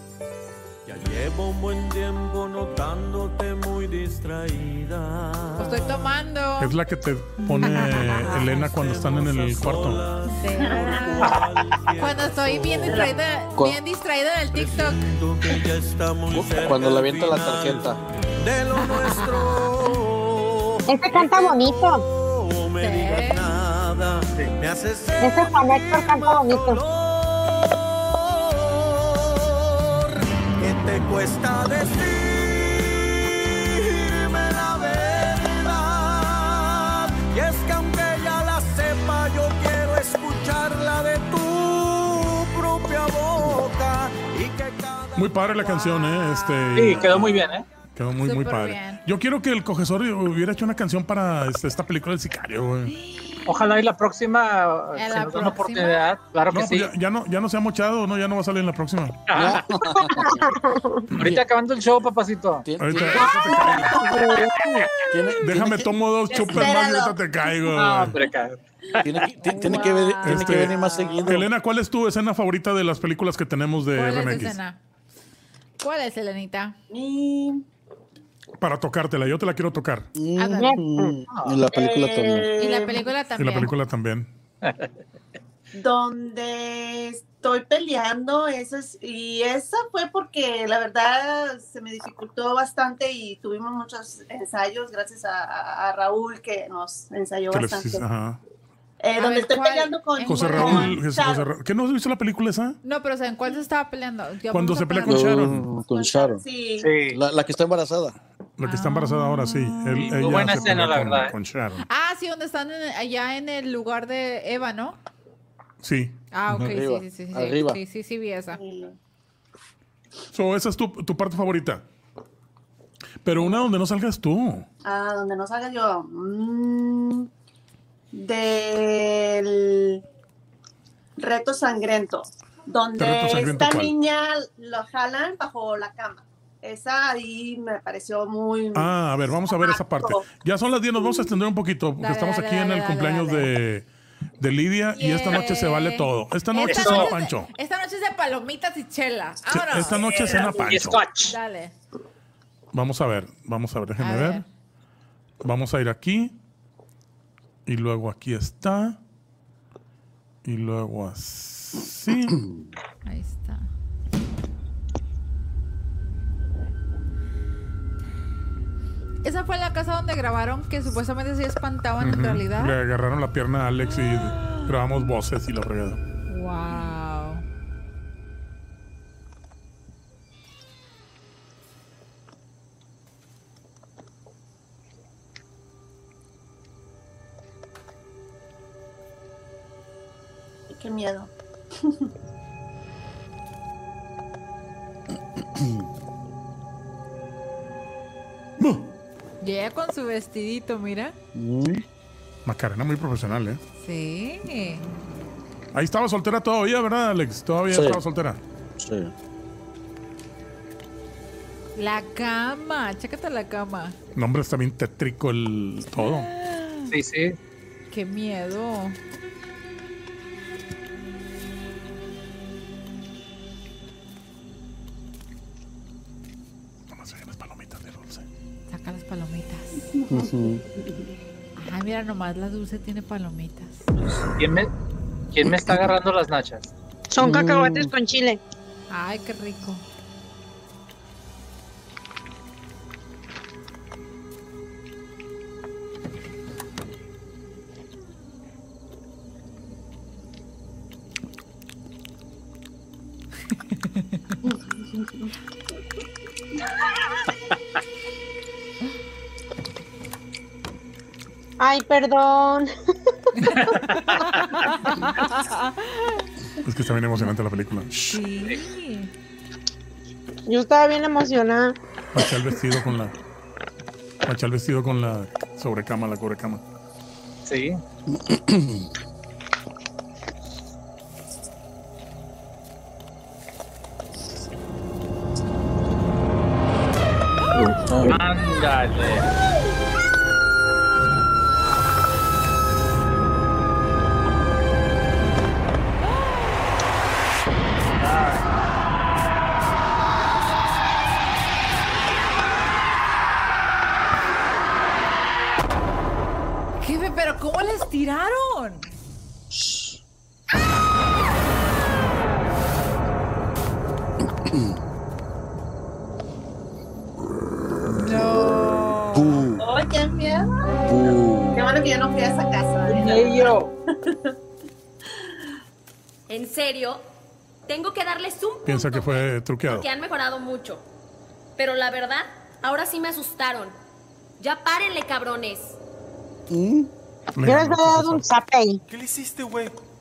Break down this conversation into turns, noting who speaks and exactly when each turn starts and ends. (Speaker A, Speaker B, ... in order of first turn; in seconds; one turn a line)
Speaker A: 0.9-6.1
Speaker B: 5.6-6.8
Speaker C: 6.6-10.1
Speaker B: 7.4-8.4
Speaker A: 8.0-13.1
Speaker B: 10.2-11.3
Speaker D: 10.5-11.3
Speaker B: 12.0-15.1
Speaker D: 12.9-13.1
Speaker A: 14.5-45.3
Speaker E: 16.3-18.0
Speaker B: 18.8-19.6
Speaker F: 20.9-22.0
Speaker B: 22.8-23.6
Speaker F: 25.2-26.8
Speaker C: 45.1-47.4
Speaker B: 45.5-47.0
Speaker G: 46.8-47.7
Speaker C: 48.0-52.9
Speaker B: 48.2-49.0
Speaker B: 52.9-53.7
Speaker G: 53.5-56.9
Speaker B: 55.0-56.1
Speaker C: 56.5-59.2
Speaker G: 59.3-59.6
Speaker E: 59.4-60.5
Speaker G: 61.2-62.7
Speaker E: 62.6-65.9
Speaker C: 62.8-64.0
Speaker C: 65.4-68.2
Speaker D: 66.3-67.2
Speaker G: 67.7-69.8
Speaker E: 69.0-71.5
Speaker B: 69.4-71.3
Speaker C: 70.2-74.6
Speaker B: 73.9-74.8
Speaker B: 75.8-76.8
Speaker D: 76.9-77.6
Speaker C: 78.6-80.1
Speaker E: 80.2-82.5
Speaker B: 80.4-80.7
Speaker F: 80.6-81.1
Speaker D: 81.7-83.1
Speaker B: 82.6-83.7
Speaker C: 83.4-84.3
Speaker D: 85.7-98.0
Speaker C: 97.5-98.4
Speaker D: 99.0-101.5
Speaker B: 99.2-101.0
Speaker C: 100.2-102.8
Speaker B: 102.8-105.3
Speaker C: 104.5-105.7
Speaker E: 105.0-106.4
Speaker D: 105.9-106.9
Speaker G: 106.8-107.2
Speaker E: 107.1-108.2
Speaker C: 108.6-111.8
Speaker B: 108.7-110.8
Speaker G: 110.1-111.3
Speaker B: 111.9-115.0
Speaker C: 115.8-116.2
Speaker B: 116.3-118.6
Speaker E: 116.5-117.8
Speaker D: 118.5-119.0
Speaker C: 120.3-121.8
Speaker C: 123.2-124.7
Speaker D: 124.8-127.3
Speaker D: 128.1-130.0
Speaker D: 131.2-138.9
Speaker C: 133.0-133.9
Speaker C: 138.7-143.9
Speaker D: 139.5-140.3
Speaker B: 142.0-143.5
Speaker C: 144.4-147.5
Speaker B: 145.0-150.7
Speaker G: 146.6-147.1
Speaker C: 149.5-151.0
Speaker G: 150.1-151.3
Speaker B: 151.3-151.7
Speaker C: 152.7-154.4
Speaker B: 154.0-154.4
Speaker C: 155.4-156.4
Speaker C: 157.7-159.0
Speaker C: 160.4-162.4
Speaker E: 162.3-162.7
Speaker B: 163.1-163.7
Speaker B: 169.2-172.8
Speaker C: 172.0-176.0
Speaker B: 173.9-174.7
Speaker B: 176.3-177.4
Speaker D: 190.7-191.3
Speaker D: 191.8-192.1
Speaker E: 195.6-195.8
Speaker C: 198.6-198.9
Speaker B: 199.4-201.2
Speaker E: 201.3-201.8
Speaker C: 202.5-203.6
Speaker B: 203.8-204.9
Speaker C: 205.7-208.4
Speaker E: 207.7-208.0
Speaker E: 208.8-209.1
Speaker B: 211.8-214.0
Speaker C: 214.2-216.3
Speaker B: 216.0-216.9
Speaker G: 216.9-217.4
Speaker B: 217.9-219.0
Speaker C: 226.9-228.2
Speaker B: 228.7-229.9
Speaker E: 230.1-230.6
Speaker B: 231.6-233.9
Speaker G: 234.4-234.7
Speaker G: 235.3-236.7
Speaker F: 237.1-238.4
Speaker E: 237.2-237.9
Speaker B: 238.9-239.8
Speaker F: 261.6-262.7
Speaker G: 263.5-264.4
Speaker B: 263.5-266.2
Speaker C: 266.6-267.9
Speaker B: 268.1-269.1
Speaker F: 270.5-271.8
Speaker C: 272.1-273.1
Speaker C: 274.2-276.6
Speaker G: 277.4-277.8
Speaker E: 278.1-278.9
Speaker E: 287.8-288.2
Speaker G: 288.0-289.3
Speaker G: 298.1-298.4
Speaker B: 306.8-308.9
Speaker E: 309.5-309.9
Speaker E: 314.5-314.8
Speaker B: 318.0-319.3
Speaker E: 319.1-319.6
Speaker D: 319.6-320.4
Speaker E: 320.9-321.6
Speaker D: 321.5-324.1
Speaker G: 322.9-323.7
Speaker H: 326.3-327.1
Speaker H: 327.7-330.9
Speaker C: 328.6-329.9
Speaker H: 331.6-333.8
Speaker H: 334.4-335.8
Speaker E: 336.5-336.9
Speaker C: 337.4-338.3
Speaker F: 337.4-338.8